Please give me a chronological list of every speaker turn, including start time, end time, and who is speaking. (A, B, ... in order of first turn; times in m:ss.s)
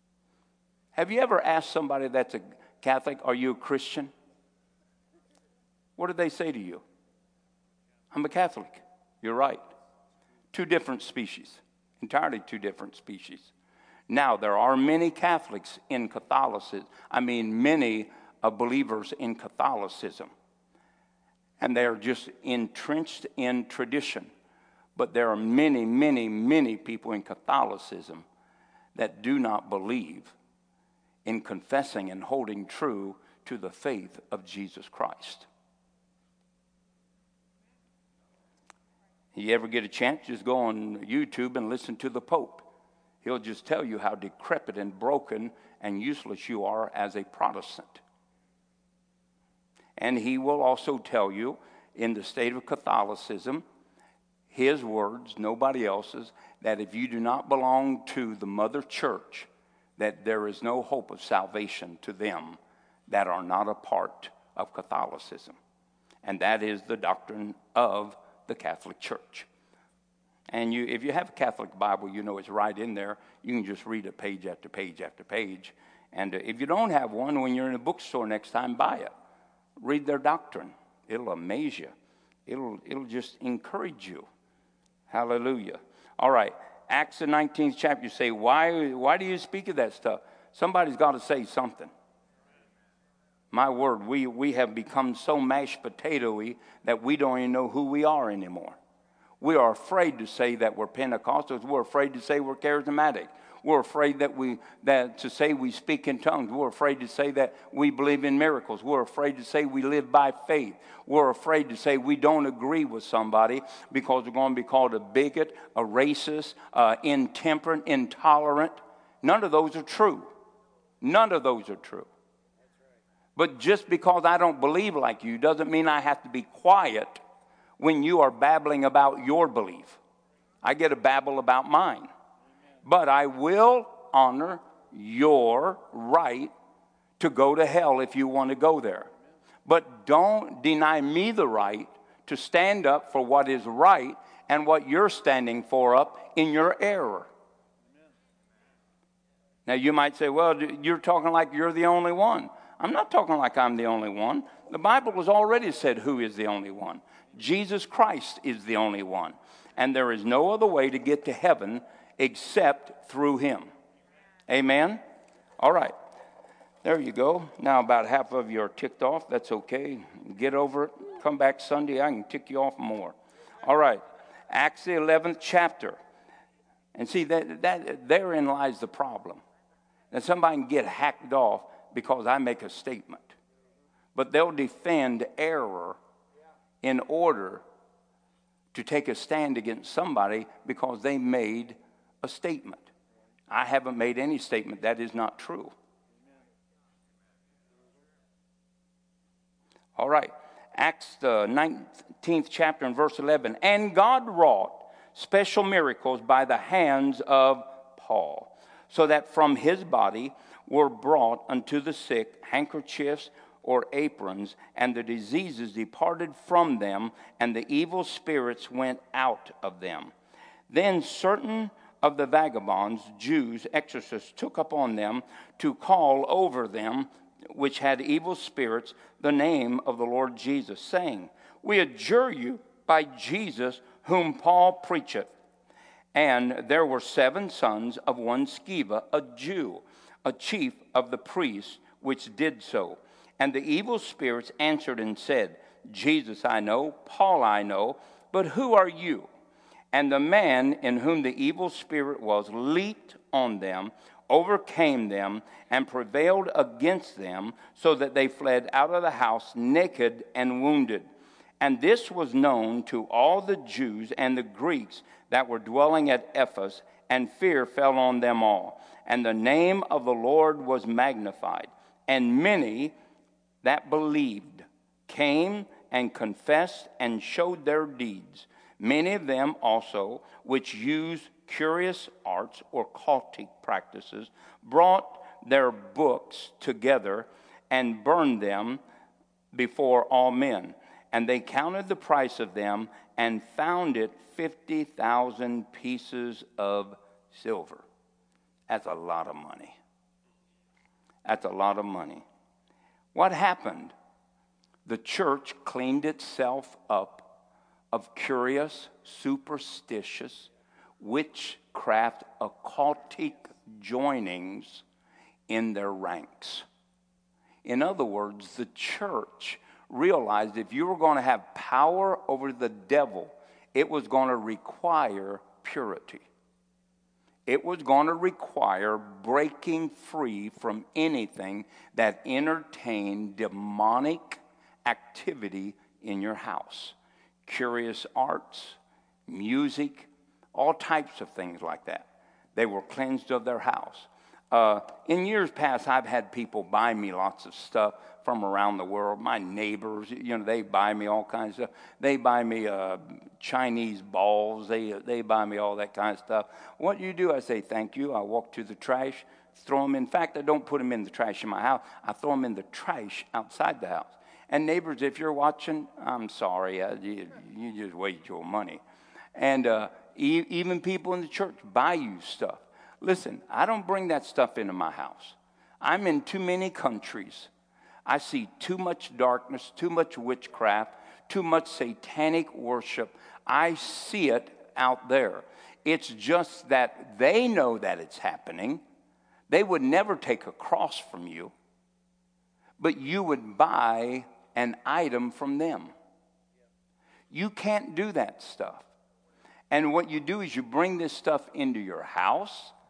0:01.0-0:04.1 A
0:06.0-0:06.8 A
0:08.1-0:09.6 A
0:10.5-0:13.5 A
0:14.1-0:20.3 A
0:21.6-0:24.3 A
0:25.0-0:28.3 A
0:29.0-0:30.4 A
0:31.2-0:35.5 A
0:39.4-0:42.7 A
0:43.2-0:48.0 A
0:50.0-0:53.6 A
0:54.5-1:05.6 A
1:06.2-1:09.5 A
1:10.5-1:19.1 A
1:19.8-1:21.9 A
1:22.5-1:24.3 A
1:25.1-1:31.9 A
1:33.5-1:38.8 A
1:39.4-2:00.3 A
2:01.0-2:02.1 A
2:03.4-2:07.2 A
2:07.8-2:10.0 A
2:10.6-2:12.1 A
2:12.8-2:16.5 A
2:17.2-2:19.1 A
2:19.6-2:27.3 A
2:29.7-2:43.7 A
2:44.5-2:45.0 A
2:45.6-2:46.0 A
2:46.8-2:56.0 A
2:56.9-2:59.4 A
3:00.1-3:03.3 A
3:04.2-3:06.0 A
3:06.8-3:07.6 A
3:08.7-3:12.9 A
3:13.5-3:15.7 A
3:20.0-3:40.1 A
3:40.7-3:55.3 A
3:56.1-4:09.3 A
4:09.9-4:21.1 A
4:21.6-4:33.0 A
4:33.6-4:48.8 A
4:49.5-4:57.8 A
4:58.7-4:59.8 A
5:01.2-5:02.2 A
5:03.1-5:03.9 A
5:04.8-5:07.3 A
5:07.9-5:14.8 A
5:15.5-5:16.6 A
5:17.6-5:26.2 A
5:27.5-6:08.8 A
6:09.4-6:17.5 A
6:18.1-6:28.8 A
6:29.5-6:31.5 A
6:32.8-6:35.9 A
6:37.3-6:38.9 A
6:39.7-6:42.7 A